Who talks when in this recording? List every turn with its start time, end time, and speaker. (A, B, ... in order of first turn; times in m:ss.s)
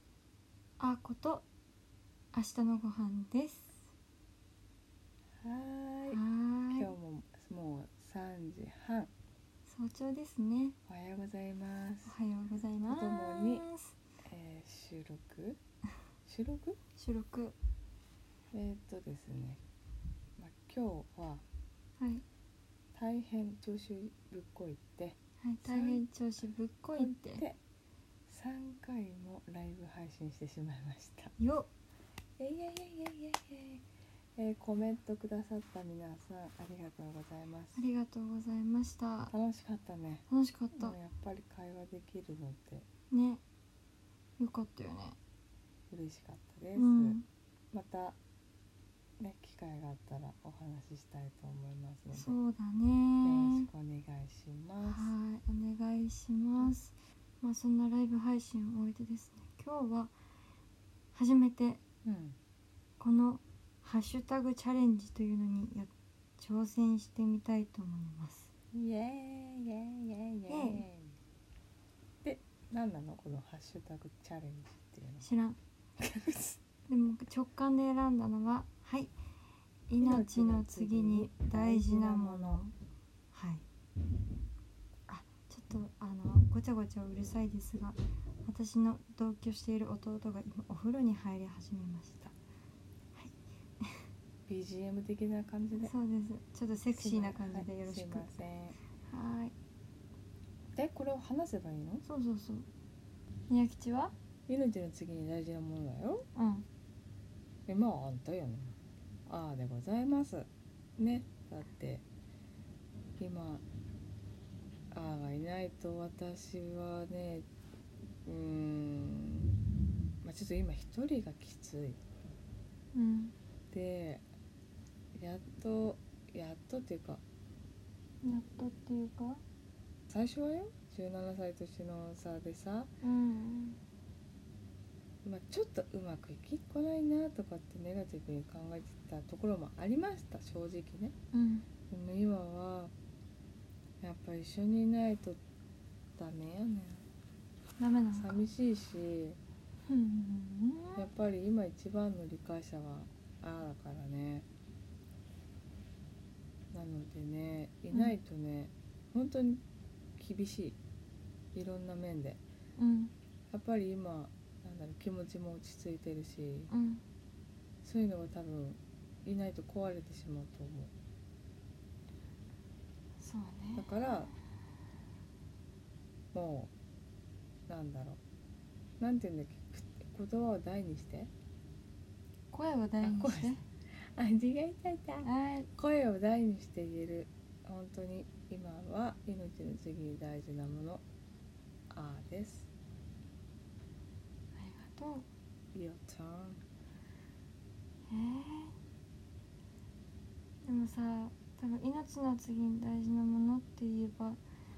0:00.8-0:01.4 A
0:02.3-0:03.8 A
0:05.4-0:06.2 B
0:06.1-0:06.9 A
0:06.7-0:09.1 B
0:09.7-0:10.8 A
0:10.9-0:12.1 B
0:12.0-0:13.9 A
0:12.8-0:13.6 B
0:14.2-0:15.6 B
0:16.2-0:16.8 B
0:17.0-0:17.6 A
0:18.5-0:19.6 B
0:20.4-0:21.4 B
0:22.0-0:22.2 A
0:22.9-0:26.0 B
0:25.4-0:27.4 A
0:27.0-0:27.6 B
0:28.3-0:31.3 B
0:31.4-0:31.7 A
0:32.4-0:33.8 B
0:34.4-0:37.8 B
0:37.7-0:39.3 A
0:39.3-0:42.8 B
0:40.3-0:40.9 A
0:43.1-0:43.4 A
0:44.4-0:45.2 A
0:45.9-0:47.2 B
0:46.7-0:47.2 A
0:47.7-0:48.2 B
0:49.2-0:52.4 B
0:52.1-0:53.7 A
0:53.2-0:55.1 B
0:54.8-1:00.1 A
1:01.1-1:01.8 A
1:02.0-1:02.4 B
1:03.0-1:08.5 A
1:08.7-1:11.2 B
1:10.5-1:10.8 A
1:12.2-1:15.3 B
1:15.2-1:15.6 A
1:16.0-1:16.6 B
1:16.9-1:19.1 A
1:19.9-1:22.7 A
1:20.0-1:22.6 B
1:23.3-1:23.6 A
1:25.1-1:32.3 A
1:33.1-1:34.1 A
1:34.4-1:35.9 B
1:35.8-1:38.4 A
1:36.9-1:38.8 B
1:39.0-1:39.5 A
1:40.7-1:42.0 B
1:42.0-1:42.6 A
1:43.5-1:44.1 A
1:44.5-1:46.2 B
1:46.3-1:46.6 A
1:47.7-1:48.8 B
1:49.3-1:52.0 B
1:53.2-1:53.6 B
1:54.9-1:57.5 B
1:58.2-1:59.6 B
2:00.2-2:02.0 B
2:02.9-2:03.3 A
2:03.7-2:04.2 B
2:05.1-2:07.2 B
2:08.2-2:09.4 A
2:10.1-2:12.9 B
2:13.0-2:13.8 A
2:15.2-2:21.1 B
2:21.3-2:21.6 A
2:21.9-2:22.9 B
2:24.0-2:25.4 B
2:26.2-2:27.0 B
2:27.8-2:28.4 A
2:28.1-2:29.4 B
2:29.8-2:31.1 A
2:31.0-2:34.4 B
2:36.7-2:39.6 B
2:40.2-2:40.8 B
2:41.5-2:42.4 B
2:42.8-2:43.1 A
2:43.5-2:46.7 B
2:46.7-2:47.0 A
2:47.8-2:50.9 B
2:53.2-2:54.1 A
2:53.8-2:54.3 B
2:56.3-2:56.7 B
2:57.7-2:58.2 B
2:59.0-3:01.3 B
3:02.5-3:03.6 A
3:03.0-3:03.6 B
3:04.1-3:11.0 B
3:05.2-3:05.7 A
3:11.9-3:12.7 B
3:14.6-3:15.2 A
3:15.7-3:16.6 B
3:18.1-3:18.7 A
3:20.6-3:24.4 A